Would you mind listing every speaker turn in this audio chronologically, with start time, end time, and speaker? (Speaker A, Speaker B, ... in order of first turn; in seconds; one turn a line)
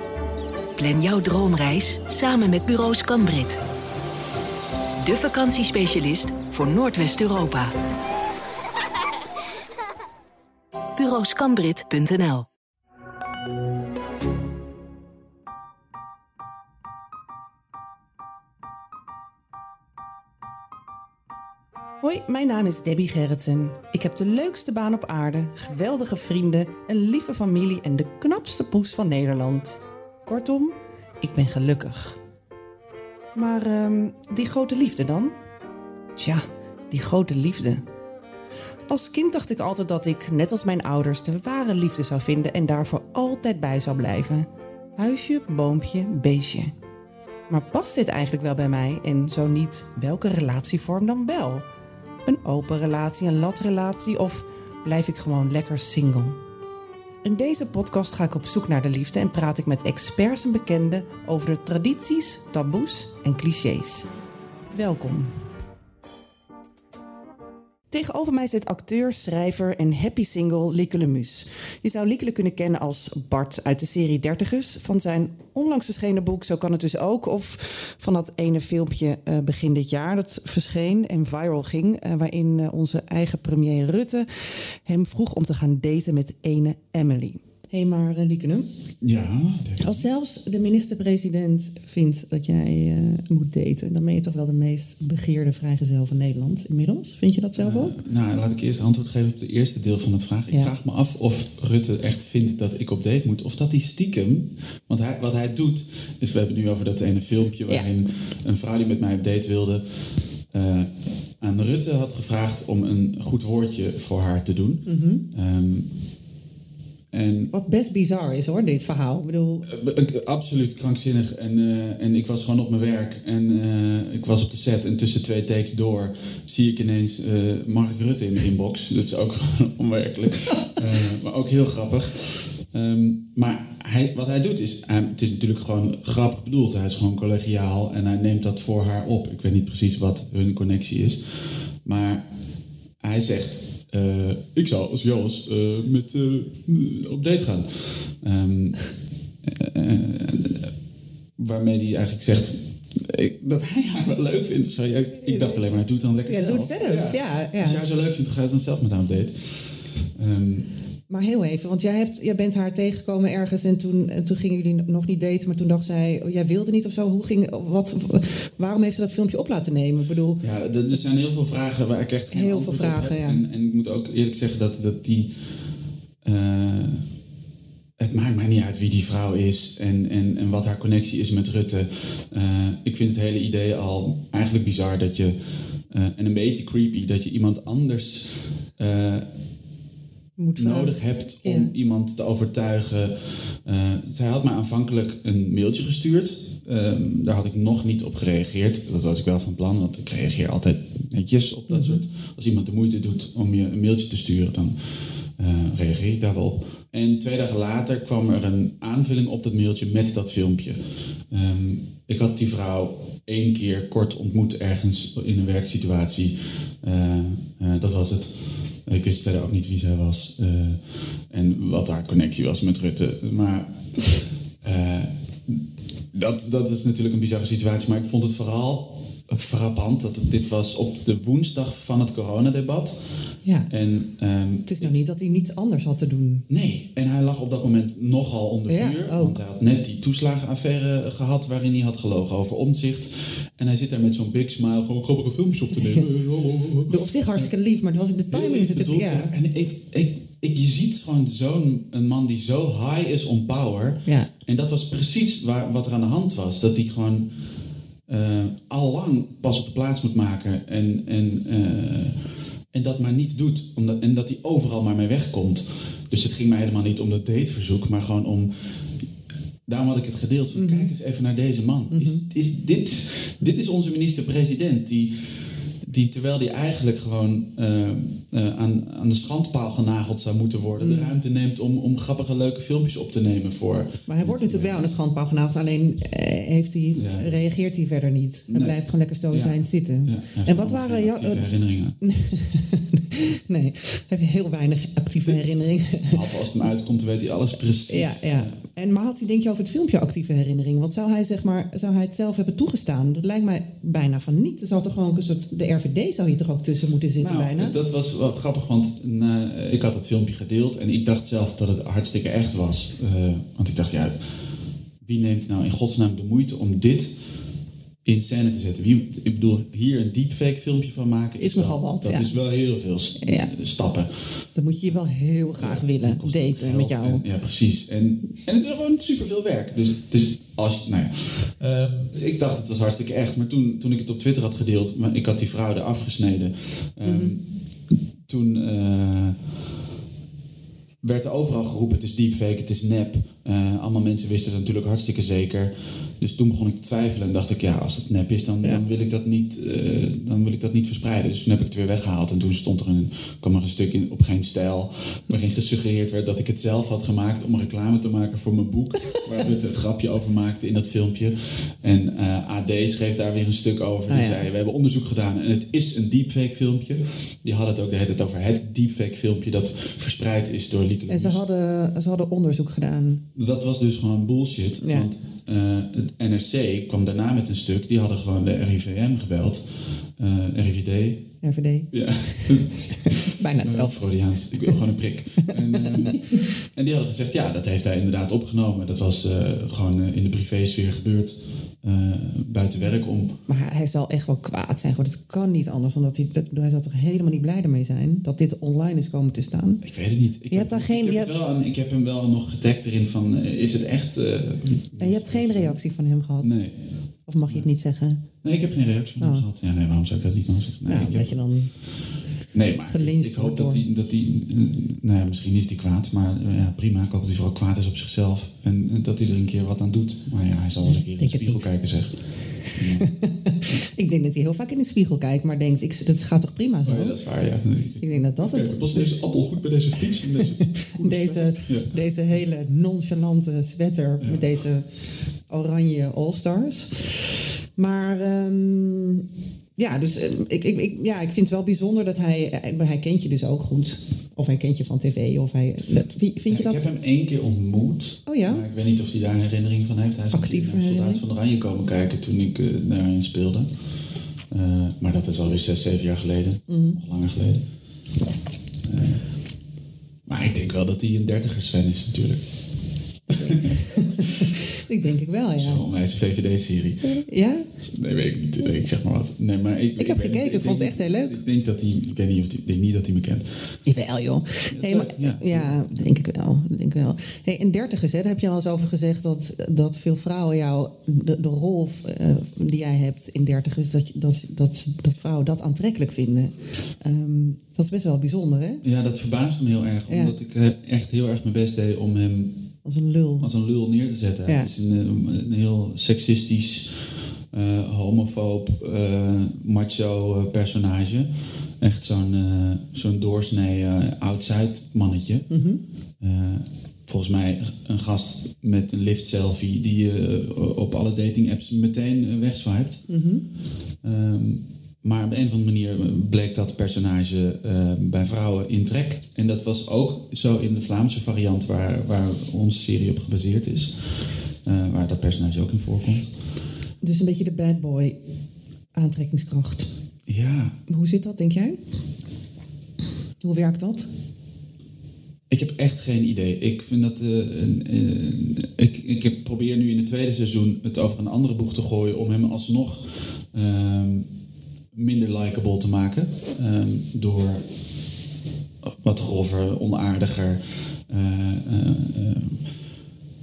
Speaker A: 0.8-3.6
Speaker A: 5.0-7.7
Speaker A: 10.9-12.5
Speaker B: 22.0-32.2
Speaker B: 33.3-35.4
Speaker B: 36.2-37.8
Speaker B: 38.9-46.7
Speaker B: 47.5-51.6
Speaker B: 52.2-56.4
Speaker B: 57.2-64.1
Speaker B: 64.7-65.3
Speaker B: 67.9-88.7
Speaker C: 89.0-90.0
Speaker B: 89.8-98.0
Speaker C: 97.6-115.9
Speaker B: 114.8-115.2
Speaker C: 117.1-117.5
Speaker B: 117.5-119.7
Speaker C: 119.7-142.2
Speaker C: 143.0-150.7
Speaker C: 151.4-160.7
Speaker B: 155.3-155.6
Speaker B: 156.2-157.8
Speaker B: 161.1-170.4
Speaker C: 170.4-175.4
Speaker B: 172.3-173.4
Speaker C: 176.2-177.1
Speaker C: 178.0-189.3
Speaker B: 190.4-191.7
Speaker C: 190.6-224.1
Speaker B: 201.7-202.0
Speaker C: 224.6-234.9
Speaker B: 233.4-233.7
Speaker B: 234.7-236.4
Speaker C: 236.5-247.4
Speaker B: 238.7-239.4
Speaker B: 246.9-249.3
Speaker C: 248.3-257.3
Speaker C: 258.1-268.8
Speaker C: 269.6-284.9
Speaker B: 270.5-270.9
Speaker B: 271.9-272.2
Speaker B: 280.8-281.2
Speaker B: 284.1-291.4
Speaker C: 287.0-287.3
Speaker C: 288.5-288.8
Speaker C: 289.3-292.0
Speaker B: 292.0-296.2
Speaker C: 296.0-298.5
Speaker B: 297.9-307.7
Speaker C: 307.2-317.4
Speaker C: 318.0-324.5
Speaker B: 321.4-322.3
Speaker B: 323.2-323.5
Speaker B: 324.5-327.2
Speaker C: 325.6-339.5
Speaker B: 337.0-337.4
Speaker C: 341.0-371.4
Speaker B: 364.1-364.4
Speaker B: 371.1-373.2
Speaker C: 373.3-381.4
Speaker B: 374.8-375.1
Speaker B: 381.4-384.0
Speaker C: 381.9-393.4
Speaker B: 385.7-386.4
Speaker B: 393.5-399.8
Speaker C: 399.8-405.8
Speaker B: 400.5-401.3
Speaker B: 405.0-406.6
Speaker C: 406.4-407.7
Speaker B: 407.2-408.2
Speaker C: 408.4-411.4
Speaker B: 409.2-409.4
Speaker B: 410.9-412.1
Speaker C: 412.5-423.2
Speaker B: 412.9-413.8
Speaker B: 420.8-421.7
Speaker B: 423.1-427.2
Speaker C: 426.8-432.0
Speaker B: 428.0-429.1
Speaker B: 430.4-439.2
Speaker C: 434.2-434.6
Speaker B: 439.8-446.8
Speaker C: 446.5-453.9
Speaker B: 448.2-448.6
Speaker B: 450.3-451.2
Speaker C: 454.5-457.6
Speaker B: 456.7-457.0
Speaker C: 458.8-459.4
Speaker C: 460.2-462.9
Speaker B: 463.3-465.8
Speaker C: 463.6-464.1
Speaker C: 465.6-467.2
Speaker B: 467.0-467.7
Speaker C: 467.9-473.8
Speaker B: 470.0-471.4
Speaker B: 473.8-488.8
Speaker C: 474.7-476.0
Speaker C: 488.8-492.7
Speaker B: 490.1-490.3
Speaker B: 492.8-493.5
Speaker C: 493.4-505.6
Speaker B: 494.4-494.7
Speaker B: 505.5-505.8
Speaker C: 506.2-513.1
Speaker B: 513.1-513.5
Speaker C: 514.0-526.4
Speaker B: 527.0-528.2
Speaker B: 528.9-529.9
Speaker C: 530.3-530.8
Speaker B: 530.9-531.8
Speaker B: 533.4-534.1
Speaker C: 535.5-544.3
Speaker C: 544.9-547.7
Speaker C: 548.8-552.7